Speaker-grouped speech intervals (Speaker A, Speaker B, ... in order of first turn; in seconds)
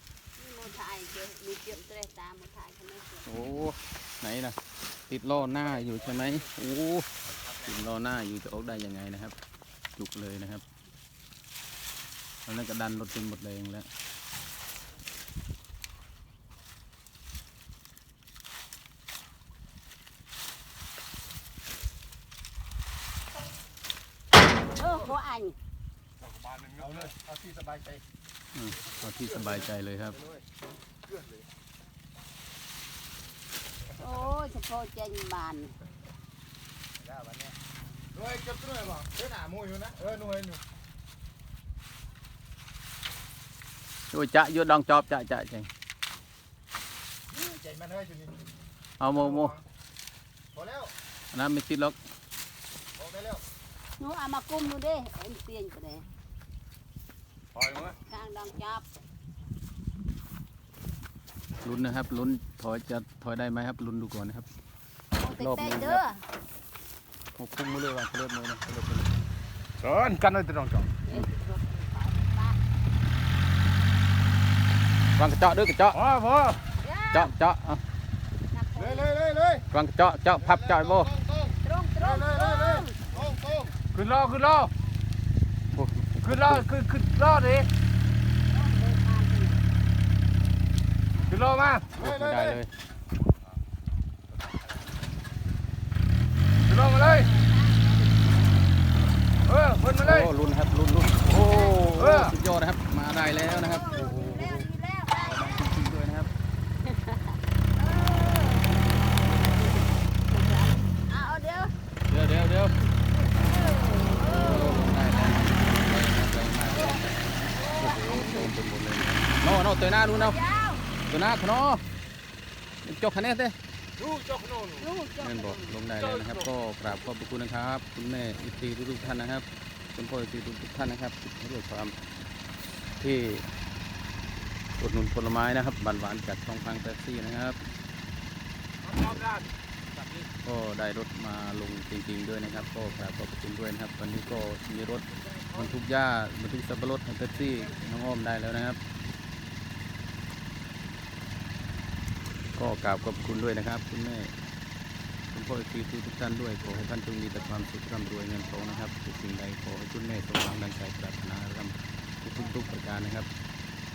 Speaker A: 0.3-3.3, 24.8-25.6, 33.9-35.8, 54.0-56.1, 58.1-58.9, 65.2-66.2, 71.1-72.6, 76.8-77.3, 78.5-79.1, 81.6-83.0, 88.5-89.7, 96.7-98.5, 101.3-101.9, 103.3-105.7, 106.8-111.7, 113.4-115.6, 116.7-118.5, 120.1-120.9, 124.8-125.8, 157.4-158.9
Speaker B: 3.3-4.6, 5.1-7.1, 7.6-9.3, 10.0-10.6, 12.5-13.9, 28.6-30.2, 44.1-45.7, 49.0-49.6, 51.3-52.0, 61.6-64.5, 65.4-66.0, 67.4-69.2, 75.2-76.0, 77.1-77.8, 79.7-81.1, 85.7-86.7, 92.0-92.7, 100.0-106.3, 112.1-112.8, 114.2-120.4, 121.1-121.8, 122.8-123.6, 125.2-132.0, 133.0-133.5, 134.8-137.7, 140.4-148.8, 152.6-154.3, 155.3-163.3
Speaker C: 5.9-6.2, 26.8-28.0, 29.3-30.4, 31.1-31.4, 37.0-37.5, 38.1-40.6, 47.3-48.4, 49.1-49.6, 50.5-50.9, 53.0-53.4, 78.8-79.7, 80.4-83.8, 92.0-92.6
Speaker D: 26.2-27.0, 57.5-58.0, 69.8-70.9, 75.9-76.6, 83.9-84.7, 86.2-87.7, 91.3-91.9, 96.6-97.3, 99.5-100.3, 101.8-102.4, 124.0-124.9, 125.9-126.5, 138.8-139.5